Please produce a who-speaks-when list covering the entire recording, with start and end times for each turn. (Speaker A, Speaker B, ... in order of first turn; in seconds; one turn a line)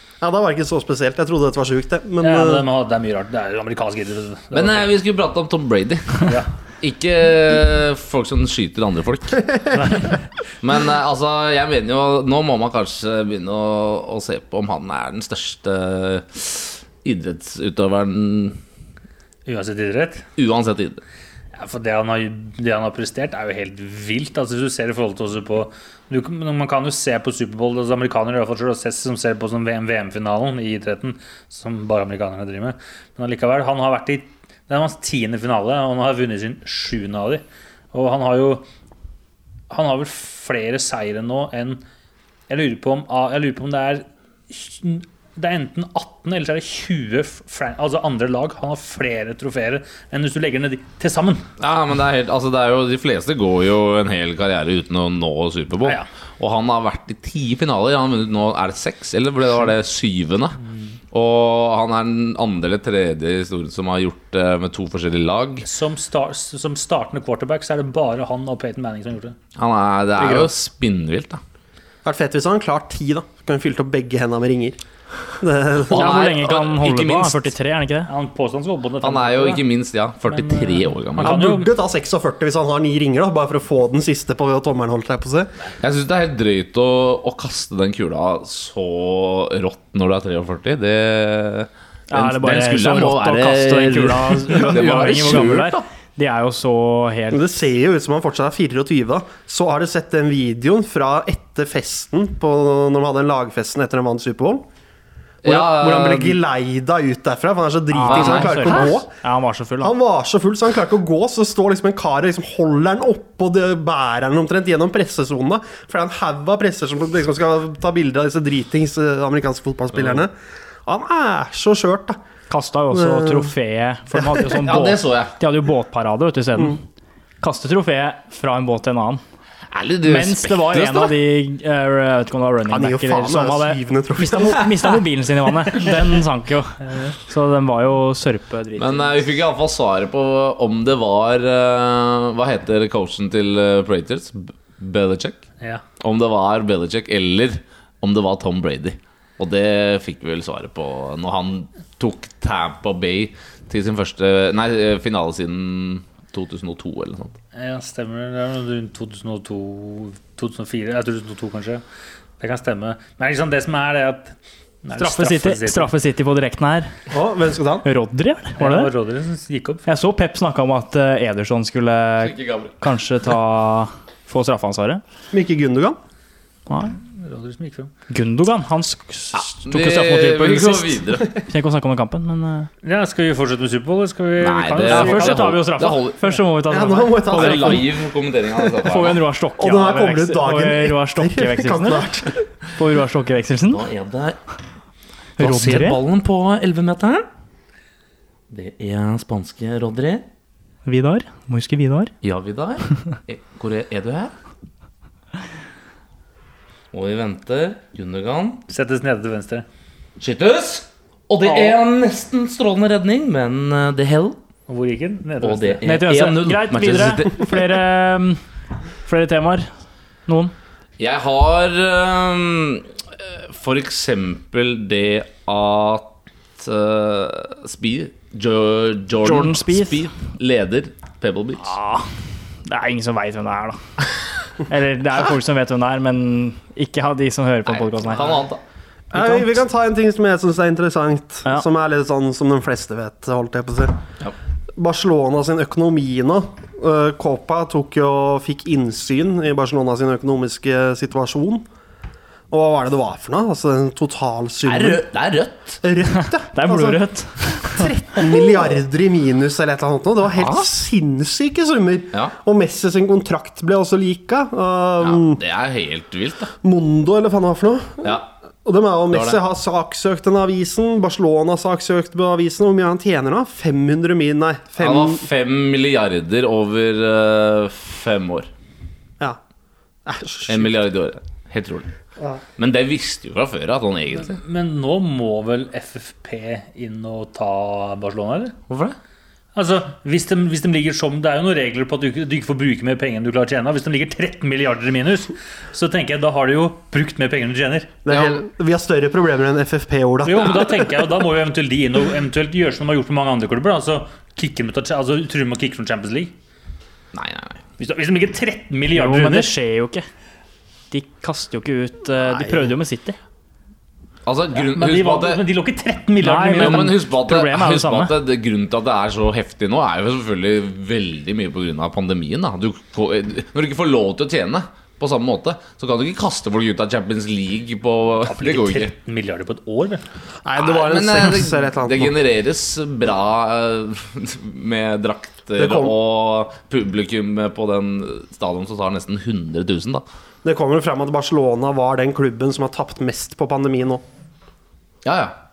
Speaker A: 0.2-2.7
Speaker B: 2.2-4.9
Speaker C: 4.5-9.7
Speaker B: 6.2-6.5
Speaker B: 9.8-10.1
Speaker C: 10.6-18.6
Speaker B: 19.4-20.3
Speaker C: 20.4-21.0
Speaker B: 21.6-38.6
Speaker B: 39.7-41.8
Speaker B: 42.5-51.5
Speaker C: 51.6-60.6
Speaker C: 61.1-65.7
Speaker B: 65.7-69.3
Speaker C: 69.5-71.4
Speaker D: 70.2-70.5
Speaker A: 72.0-74.8
Speaker A: 75.4-76.4
Speaker C: 75.9-77.5
Speaker D: 75.9-78.1
Speaker B: 78.1-79.7
Speaker C: 79.0-81.4
Speaker B: 80.3-81.7
Speaker A: 81.2-85.5
Speaker C: 85.8-95.8
Speaker D: 92.1-97.4
Speaker A: 97.3-104.7
Speaker C: 105.4-106.4
Speaker A: 105.4-109.1
Speaker D: 107.9-109.9
Speaker C: 108.1-108.9
Speaker A: 109.8-120.3
Speaker C: 120.0-120.2
Speaker A: 120.8-122.2
Speaker D: 122.5-126.8
Speaker A: 122.9-123.5
Speaker A: 124.1-124.5
Speaker C: 124.6-125.3
Speaker D: 127.4-129.2
Speaker C: 129.7-131.1
Speaker D: 130.0-139.2
Speaker A: 132.7-135.0
Speaker C: 138.8-145.4
Speaker C: 146.0-157.3
Speaker B: 157.5-161.8
Speaker B: 162.4-165.9
Speaker D: 165.0-166.9
Speaker A: 167.1-167.8
Speaker D: 167.8-168.9
Speaker B: 168.6-169.8
Speaker D: 169.8-175.0
Speaker C: 172.2-172.7
Speaker A: 175.3-176.0
Speaker D: 176.7-177.0
Speaker B: 177.1-177.9
Speaker D: 178.1-182.7
Speaker C: 179.3-181.4
Speaker B: 182.8-185.6
Speaker C: 184.4-186.2
Speaker D: 184.8-187.8
Speaker A: 186.7-187.9
Speaker C: 187.3-189.2
Speaker D: 188.8-192.1
Speaker A: 189.6-192.4
Speaker D: 192.7-193.8
Speaker C: 193.7-194.4
Speaker D: 195.4-196.0
Speaker C: 195.4-197.3
Speaker C: 198.5-200.2
Speaker D: 200.8-202.1
Speaker C: 202.2-204.3
Speaker C: 206.9-208.6
Speaker B: 208.7-209.7
Speaker C: 210.2-214.4
Speaker B: 211.4-211.7
Speaker B: 214.7-215.8
Speaker C: 215.4-217.6
Speaker D: 215.8-218.4
Speaker D: 219.0-219.7
Speaker D: 220.3-220.5
Speaker C: 221.0-231.7
Speaker D: 229.2-230.1
Speaker D: 231.6-238.4
Speaker C: 237.7-238.6
Speaker A: 239.1-244.0
Speaker D: 239.1-239.6
Speaker A: 244.8-251.6
Speaker A: 252.5-255.0
Speaker C: 254.6-255.8
Speaker A: 255.8-265.4
Speaker D: 256.2-257.9
Speaker C: 265.0-266.5
Speaker A: 266.6-275.2
Speaker C: 268.0-268.3
Speaker C: 269.1-269.4
Speaker C: 274.8-278.5
Speaker A: 280.1-280.7
Speaker C: 280.5-281.9
Speaker C: 282.6-284.4
Speaker B: 284.2-288.6
Speaker C: 288.7-288.9
Speaker B: 289.5-297.9
Speaker A: 298.0-300.9
Speaker C: 298.1-298.4
Speaker B: 300.2-306.3
Speaker C: 307.1-307.6
Speaker B: 307.8-309.5
Speaker D: 308.9-310.1
Speaker D: 310.9-313.2
Speaker A: 312.3-312.7
Speaker C: 314.2-315.4
Speaker B: 314.5-316.9
Speaker D: 316.2-318.1
Speaker C: 316.5-328.9
Speaker B: 328.2-330.0
Speaker A: 330.4-332.1
Speaker C: 330.6-340.0
Speaker A: 335.6-335.9
Speaker A: 340.4-344.0
Speaker C: 345.0-345.4